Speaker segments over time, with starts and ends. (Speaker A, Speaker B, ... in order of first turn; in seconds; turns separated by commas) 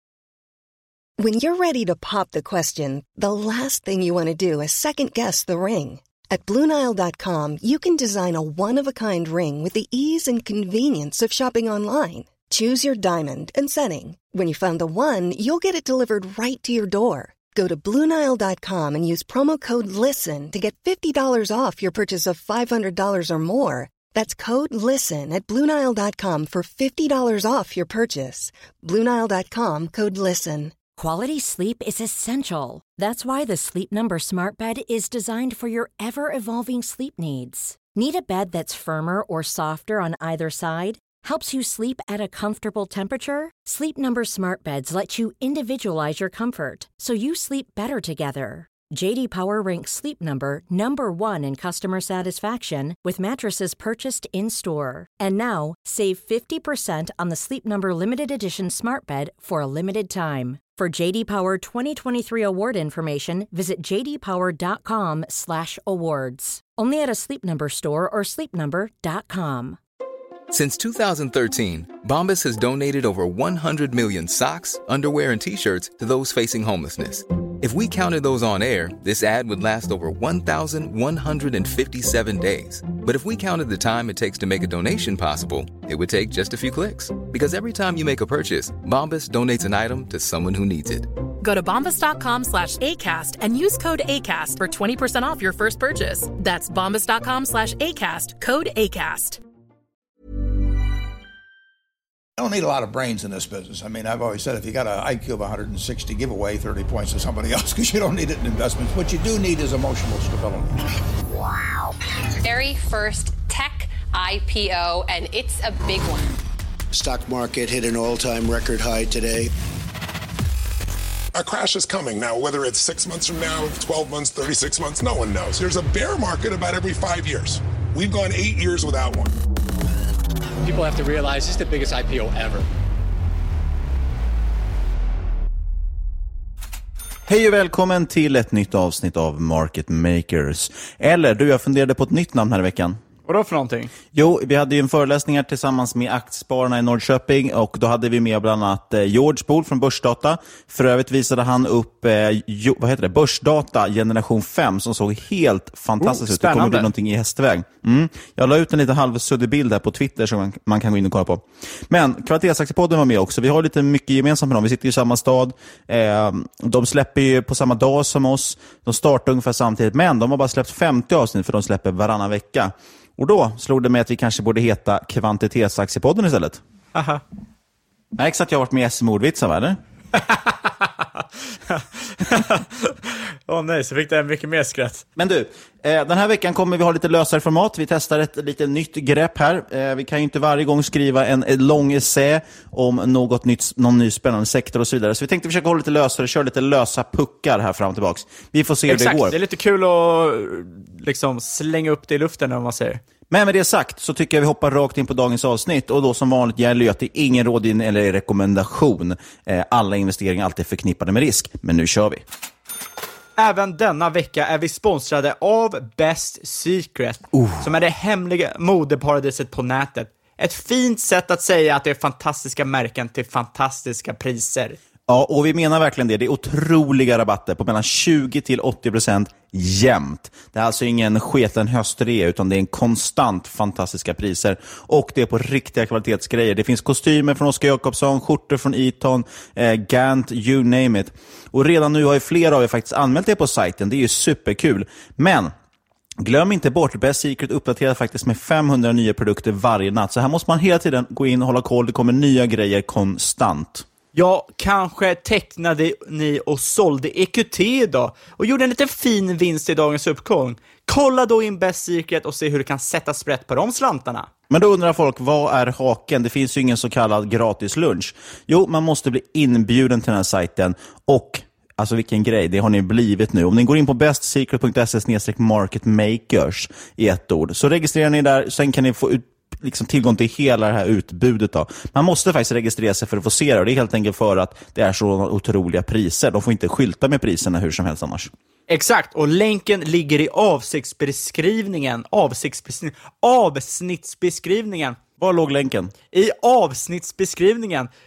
Speaker A: 1.2-30.8, Speaker B: 31.0-69.8, Speaker C: 70.5-91.1, Speaker D: 91.4-99.4, Speaker E: 102.4-110.8, Speaker F: 112.4-116.4, Speaker G: 116.9-119.5, Speaker H: 121.3-129.3, Speaker I: 130.6-132.7, Speaker J: 137.3-143.0, Speaker K: 143.3-143.9, Speaker J: 144.1-176.6, Speaker K: 156.0-156.9, Speaker K: 176.9-177.2, Speaker J: 178.2-179.8, Speaker K: 181.8-182.9, Speaker K: 183.5-185.1, Speaker J: 185.2-199.4, Speaker K: 198.9-203.0, Speaker J: 203.3-212.2, Speaker K: 213.4-224.8, Speaker J: 217.3-217.6, Speaker J: 225.1-245.5, Speaker J: 246.2-253.9, Speaker K: 254.1-264.3, Speaker J: 264.5-288.3, Speaker K: 288.7-295.0, Speaker J: 295.2-295.9, Speaker K: 296.1-297.9